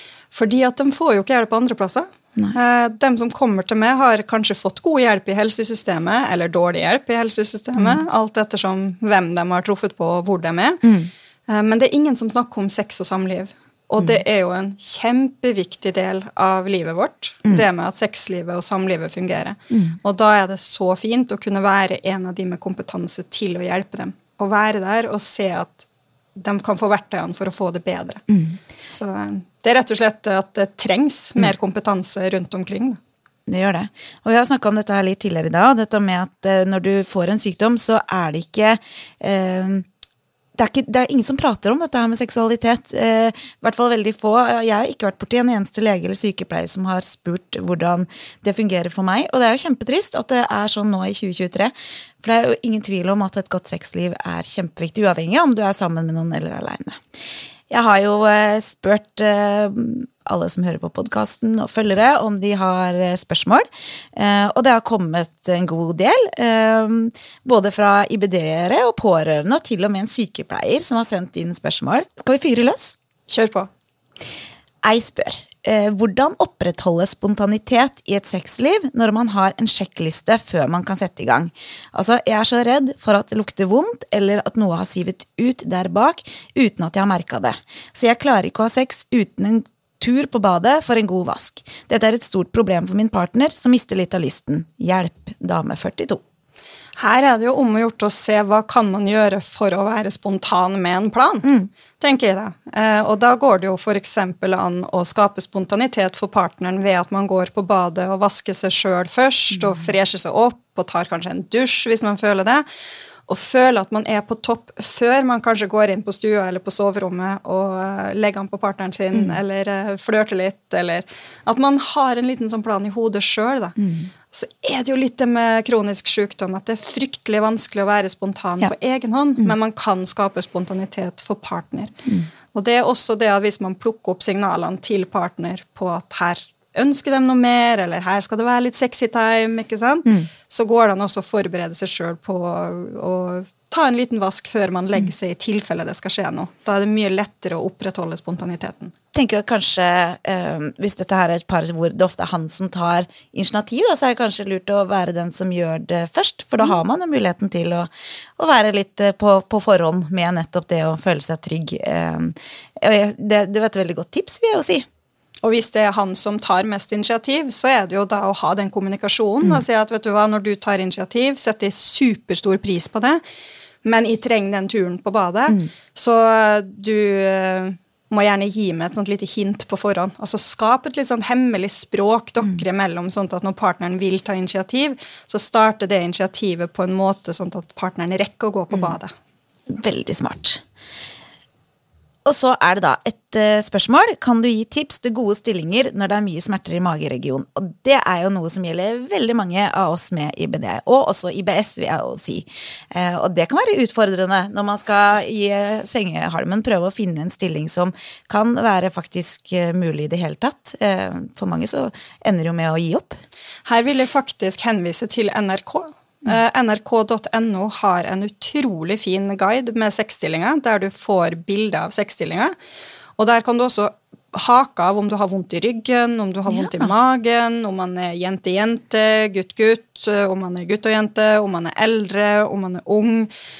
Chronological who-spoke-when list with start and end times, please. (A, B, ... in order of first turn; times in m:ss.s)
0:00.3-0:10.9 A
0:10.8-0:11.1 B
0:11.5-0:28.2 A
0:19.7-0:20.0 B
0:28.3-0:28.6 B
0:28.9-0:33.0 A
0:33.5-0:39.8 B
0:40.6-0:57.0 B
0:57.7-1:12.9 B
1:13.3-1:13.7 A
1:14.8-1:36.2 B
1:37.0-1:52.6 A
1:41.4-1:41.7 B
1:53.3-2:03.8 A
2:03.8-2:04.1 B
2:04.3-2:12.0 A
2:12.5-2:28.9 A
2:29.1-2:44.8 B
2:45.4-2:53.2 A
2:53.8-3:09.1 A
3:09.7-3:10.6 B
3:12.2-3:33.2 B
3:33.6-3:42.6 A
3:43.2-3:53.3 A
3:46.5-3:46.9 B